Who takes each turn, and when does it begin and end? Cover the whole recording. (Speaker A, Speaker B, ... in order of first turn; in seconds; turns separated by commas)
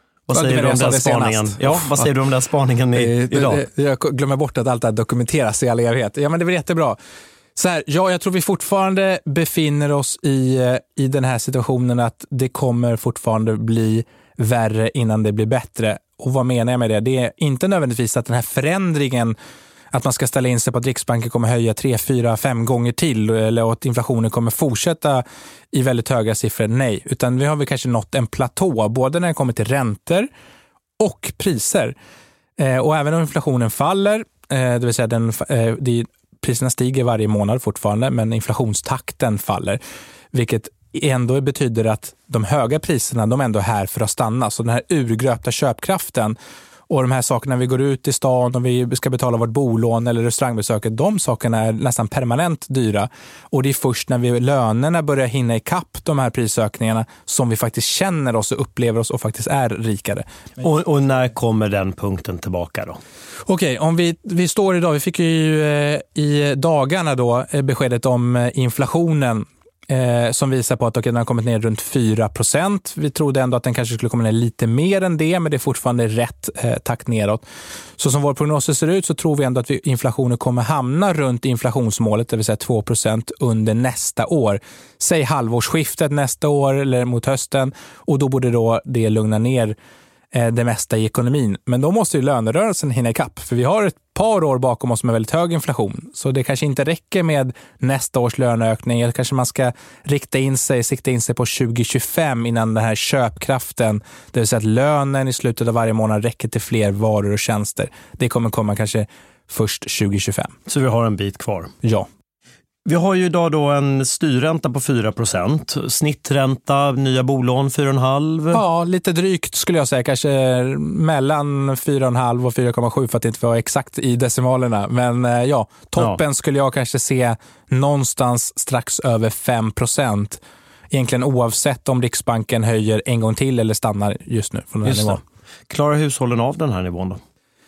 Speaker A: 0.3-3.6, Speaker B: 0.3-2.0, Speaker B: 3.0-7.0, Speaker B: 7.6-19.4, Speaker B: 19.9-30.3, Speaker B: 31.0-31.9, Speaker B: 32.6-39.8, Speaker B: 40.3-46.4, Speaker B: 46.9-60.3, Speaker A: 60.6-63.0, Speaker B: 63.5-77.4, Speaker B: 78.0-89.8, Speaker B: 90.3-110.5, Speaker A: 110.7-111.7, Speaker B: 111.8-112.1, Speaker A: 112.9-118.6, Speaker B: 118.5-135.2, Speaker A: 134.8-137.2